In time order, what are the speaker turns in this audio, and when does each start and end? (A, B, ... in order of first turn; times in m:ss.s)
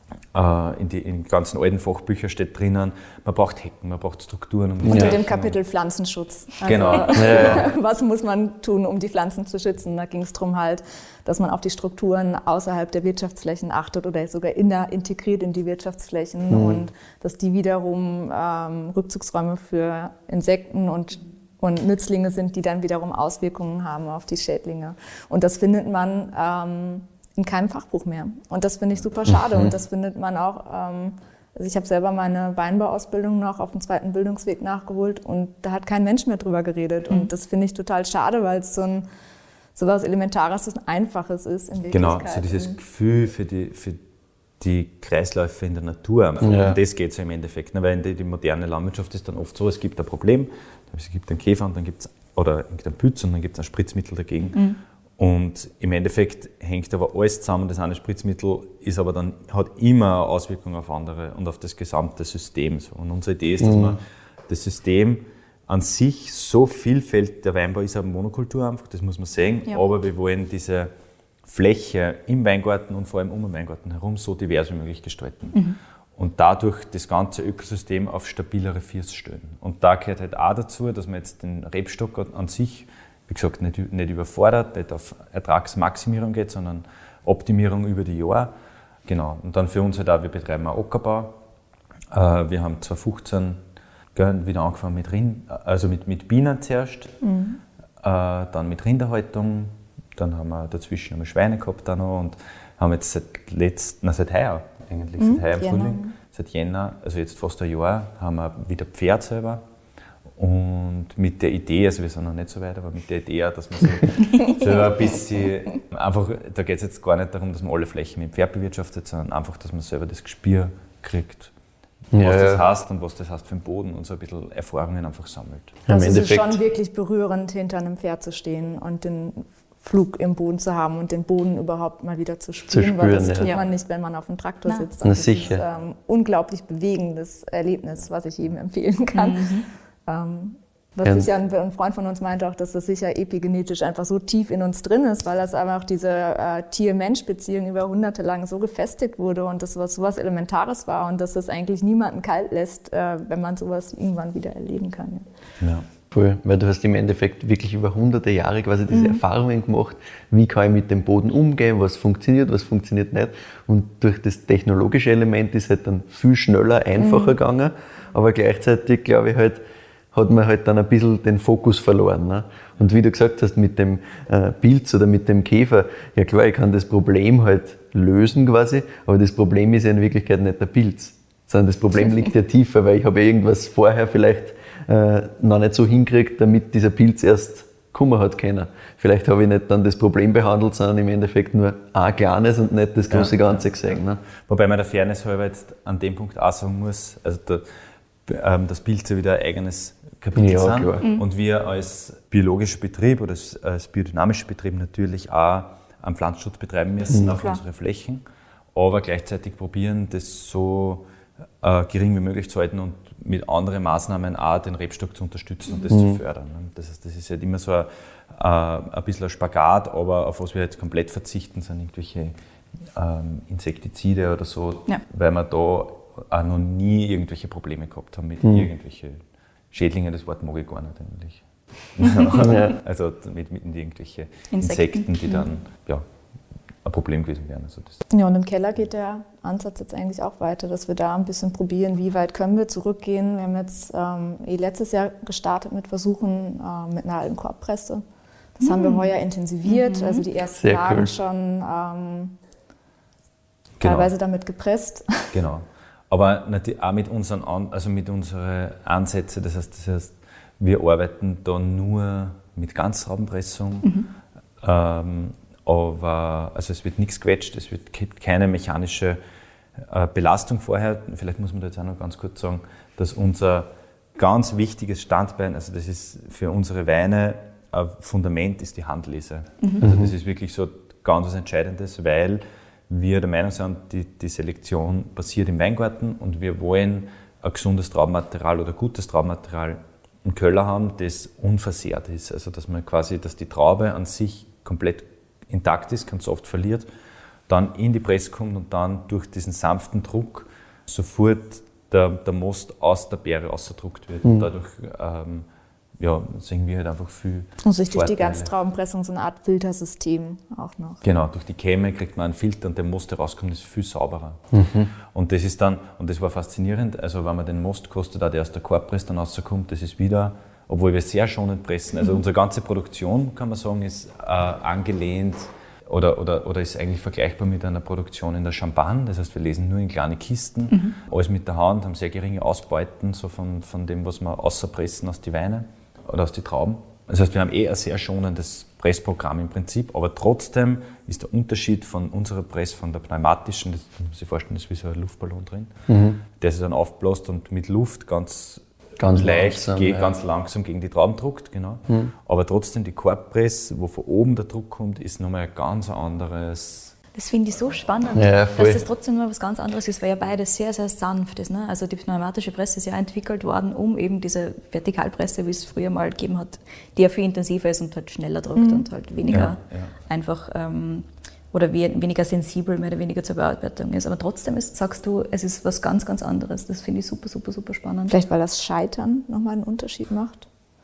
0:00.3-0:05.6 A
0:04.8-0:05.2 B
0:04.9-0:39.1 C
0:06.6-0:07.7 A
0:07.1-0:07.7 B
0:16.5-0:16.8 B
0:29.3-0:29.7 B
0:39.8-0:42.8 C
0:41.9-0:44.0 A
0:44.6-0:54.6 A
0:46.4-0:46.8 B
0:55.2-1:10.9 A
1:03.6-1:04.0 B
1:11.5-1:15.6 A
1:16.2-1:28.5 A
1:29.1-1:31.4 A
1:32.1-1:33.6 A
1:34.2-1:37.2 A
1:37.2-1:37.6 C
1:38.0-1:49.6 A
1:45.2-1:46.2 C
1:50.4-2:01.5 A
2:02.1-2:02.7 B
2:02.1-2:05.8 A
2:05.9-2:06.6 B
2:05.9-2:19.4 C
2:12.7-2:13.6 B
2:15.0-2:15.6 B
2:19.1-2:19.7 D
2:20.1-2:35.3 C
2:36.1-2:49.6 B
2:47.0-2:47.4 C
2:50.1-3:14.2 B
3:13.1-3:13.6 A
3:14.4-3:17.6 A
3:18.3-3:28.2 A
3:20.4-3:21.0 B
3:27.1-3:27.4 B
3:28.8-3:31.0 A
3:31.6-3:42.4 A
3:35.9-3:36.2 B
3:43.0-3:49.2 A
3:48.4-3:48.7 B
3:49.7-3:56.0 A
3:52.4-3:52.8 B
3:54.5-3:55.5 D
3:56.8-3:58.0 A
3:58.1-4:08.0 C
4:08.6-4:12.4 C
4:08.6-4:09.1 D
4:09.7-4:10.2 D
4:10.6-4:11.1 B
4:13.8-4:14.1 A
4:13.8-4:15.3 C
4:15.3-4:23.9 A
4:24.6-4:29.2 A
4:29.8-4:56.9 A
4:39.8-4:40.1 B
4:57.5-5:05.5 A
5:04.2-5:04.5 B
5:06.0-5:08.5 A
5:07.6-5:11.0 C
5:11.0-5:14.4 A
5:14.5-5:14.9 B
5:15.1-5:45.8 A
5:30.7-5:31.0 D
5:45.9-5:46.2 B
5:46.3-5:57.0 A
5:49.0-5:50.2 B
5:57.1-6:18.1 D
5:58.1-5:58.9 B
6:08.6-6:08.8 C
6:09.3-6:09.9 A
6:18.1-6:20.5 C